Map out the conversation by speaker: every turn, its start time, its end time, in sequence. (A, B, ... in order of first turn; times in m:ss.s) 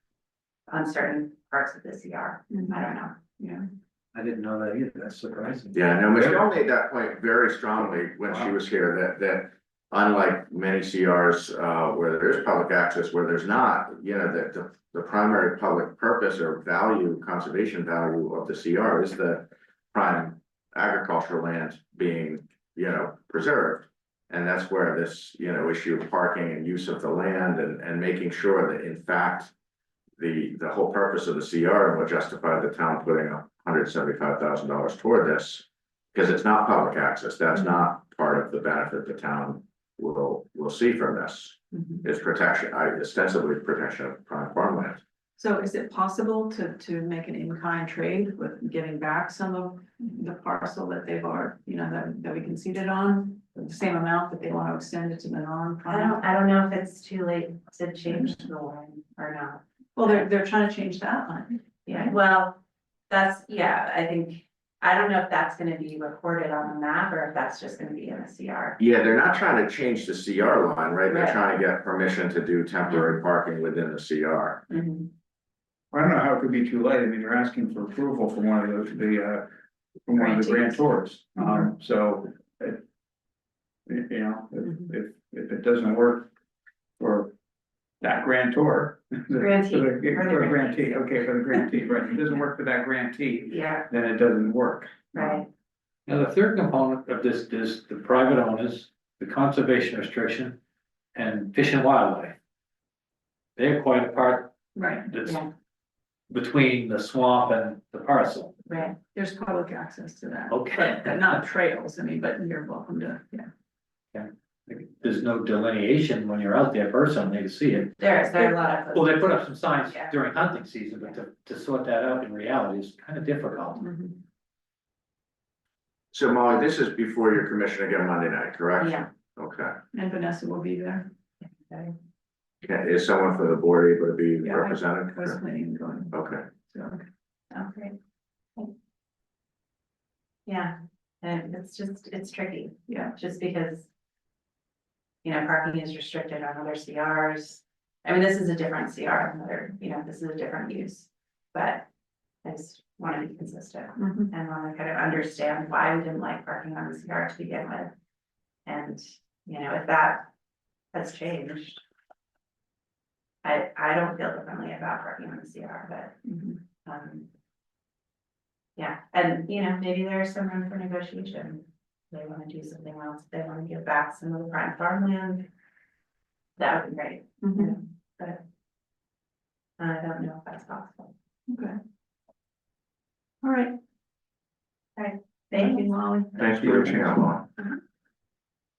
0:00.7-0:03.2 A
0:02.5-0:02.8 B
0:03.4-0:03.6 B
0:04.1-0:06.4 C
0:05.7-0:29.5 D
0:08.3-0:08.5 C
0:30.2-0:45.0 D
0:45.4-0:56.2 B
0:55.9-1:00.2 A
0:58.1-0:58.4 B
1:00.0-1:02.2 B
1:01.9-1:02.6 A
1:03.1-1:08.8 A
1:08.8-1:14.6 D
1:11.1-1:11.4 A
1:14.7-1:15.1 A
1:15.9-1:19.5 E
1:20.0-1:22.8 E
1:20.2-1:20.8 A
1:23.9-1:26.3 E
1:27.0-1:27.3 E
1:28.0-1:35.4 E
1:29.4-1:31.2 A
1:33.5-1:33.8 A
1:35.1-1:35.5 A
1:36.1-1:40.6 C
1:41.1-1:42.4 C
1:43.6-1:44.5 C
1:44.7-1:45.1 B
1:45.1-1:45.4 C
1:46.3-1:48.5 C
1:48.7-1:49.0 A
1:49.1-1:53.5 B
1:50.5-1:51.3 C
1:54.1-1:58.1 C
1:58.0-1:59.3 A
1:58.9-2:03.8 C
1:59.8-2:01.2 A
2:03.8-2:04.2 B
2:06.1-2:09.8 D
2:08.8-2:09.1 A
2:09.9-2:11.1 B
2:11.4-2:12.0 A
2:12.6-2:15.4 D
2:14.4-2:16.1 B
2:16.1-2:16.4 D
2:16.7-2:17.0 B
2:17.5-2:18.0 A
2:20.4-2:23.9 A
2:22.9-2:23.1 B
2:25.2-2:31.9 A
2:32.4-2:37.9 A
2:34.0-2:34.3 B
2:38.6-2:40.3 A
2:40.9-2:41.8 A
2:43.4-2:46.2 A
2:46.2-2:46.6 B
2:46.8-2:47.3 A
2:48.8-2:55.5 A
2:56.6-2:58.4 A
2:57.4-2:57.7 B
2:59.8-3:01.1 A
3:01.5-3:01.8 B
3:03.4-3:03.7 B
3:05.0-3:05.9 A
3:05.5-3:07.1 B
3:06.4-3:07.4 D